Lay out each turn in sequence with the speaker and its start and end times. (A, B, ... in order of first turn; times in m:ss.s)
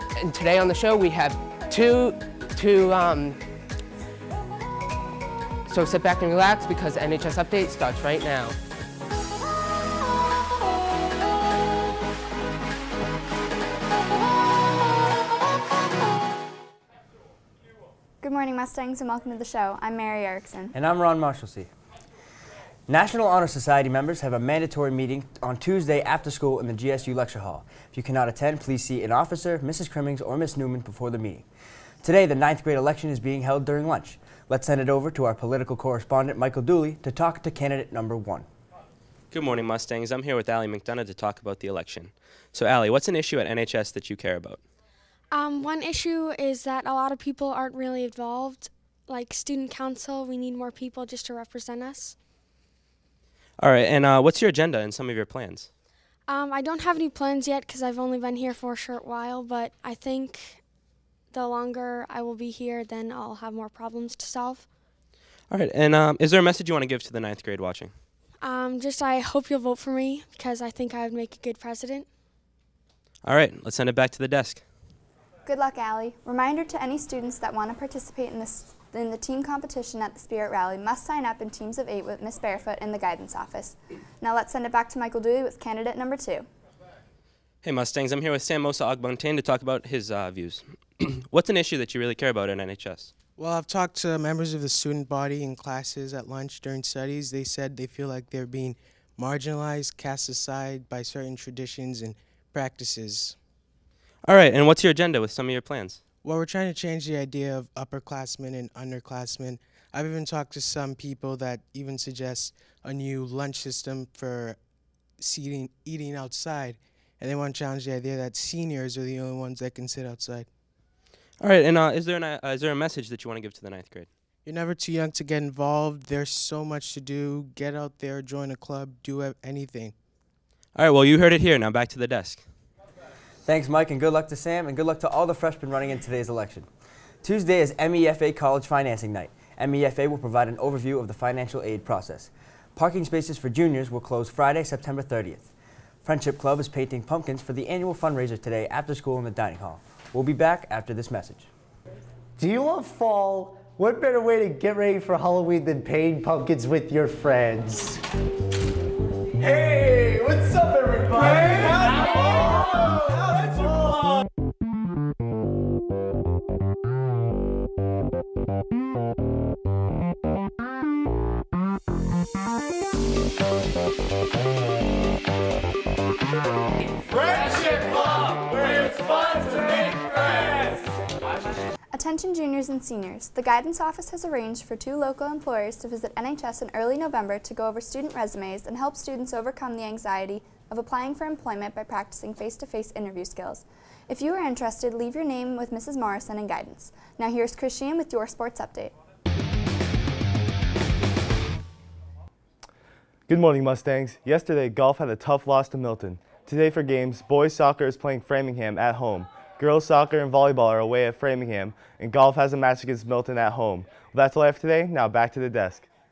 0:00.2-0:03.3 A
0:05.7-0:08.5 A
0:18.2-0:20.7 B
0:20.7-0:21.7 C
0:22.9-0:31.4 C
0:32.0-0:38.4 C
0:39.3-0:44.6 D
0:45.3-0:52.1 E
0:53.6-0:55.7 D
0:56.3-1:00.6 E
1:01.3-1:04.6 E
1:05.5-1:07.9 D
1:08.4-1:12.1 E
1:13.2-1:14.6 D
1:15.4-1:26.4 B
1:27.6-1:33.1 D
1:33.4-1:43.3 F
1:44.2-1:46.0 D
1:46.2-1:54.6 F
1:55.2-2:00.5 F
2:01.4-2:04.1 D
2:04.4-2:09.9 F
2:10.8-2:12.4 D
2:13.4-2:16.7 C
2:17.2-2:25.5 C
2:26.0-2:31.5 C
2:32.4-2:38.0 G
2:39.4-2:41.7 G
3:01.9-3:18.9 B
3:23.3-3:35.8 H